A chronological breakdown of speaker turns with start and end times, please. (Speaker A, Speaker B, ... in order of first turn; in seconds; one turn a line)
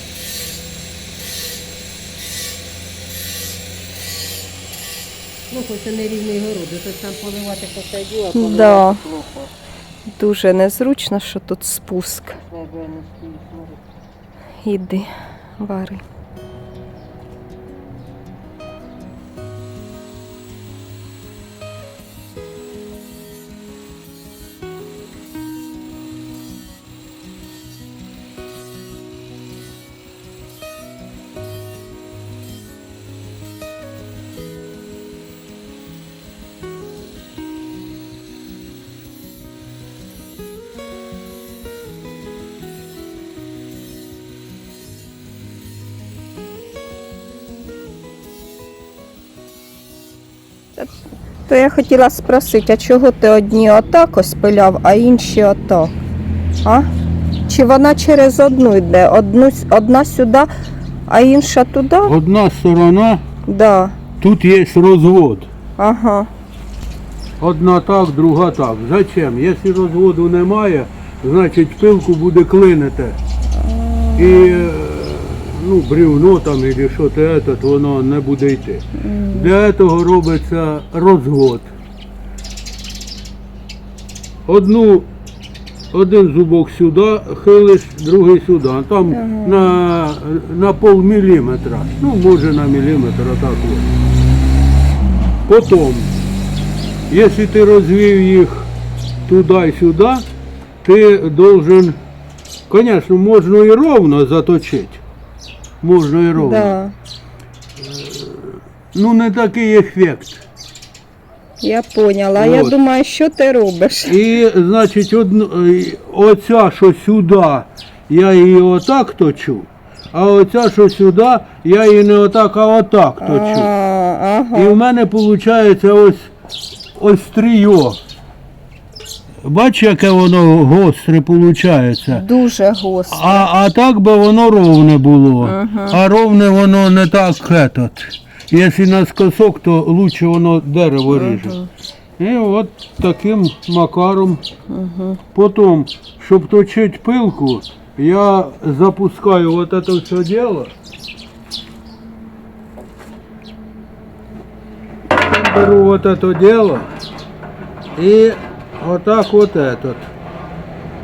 Speaker A: 5.5-9.5
Speaker B: 8.3-9.0
Speaker B: 10.2-12.4
Speaker A: 12.4-13.8
Speaker B: 14.6-15.1
Speaker B: 15.6-16.0
Speaker B: 51.5-55.9
Speaker B: 57.5-60.5
Speaker B: 61.1-62.1
Speaker C: 62.0-63.2
Speaker B: 63.5-64.0
Speaker C: 64.2-65.5
Speaker B: 65.8-66.3
Speaker C: 67.4-73.2
Speaker B: 73.5-74.7
Speaker C: 74.2-81.7
Speaker B: 79.0-79.5
Speaker C: 84.5-85.1
Speaker C: 85.9-93.9
Speaker B: 89.1-89.7
Speaker C: 95.5-96.1
Speaker C: 97.1-98.7
Speaker C: 99.3-100.2
Speaker C: 100.8-102.0
Speaker C: 102.7-105.0
Speaker C: 105.8-106.8
Speaker B: 106.4-106.9
Speaker C: 107.8-110.4
Speaker B: 111.6-114.2
Speaker C: 112.4-112.8
Speaker C: 114.1-123.7
Speaker B: 123.2-124.8
Speaker C: 124.5-126.3
Speaker C: 127.0-128.0
Speaker C: 129.4-132.2
Speaker B: 132.1-133.5
Speaker C: 133.1-141.6
Speaker B: 135.4-136.0
Speaker B: 141.1-141.7
Speaker C: 142.2-144.4
Speaker B: 144.7-145.2
Speaker C: 145.3-150.7
Speaker C: 155.2-156.9
Speaker C: 158.0-160.1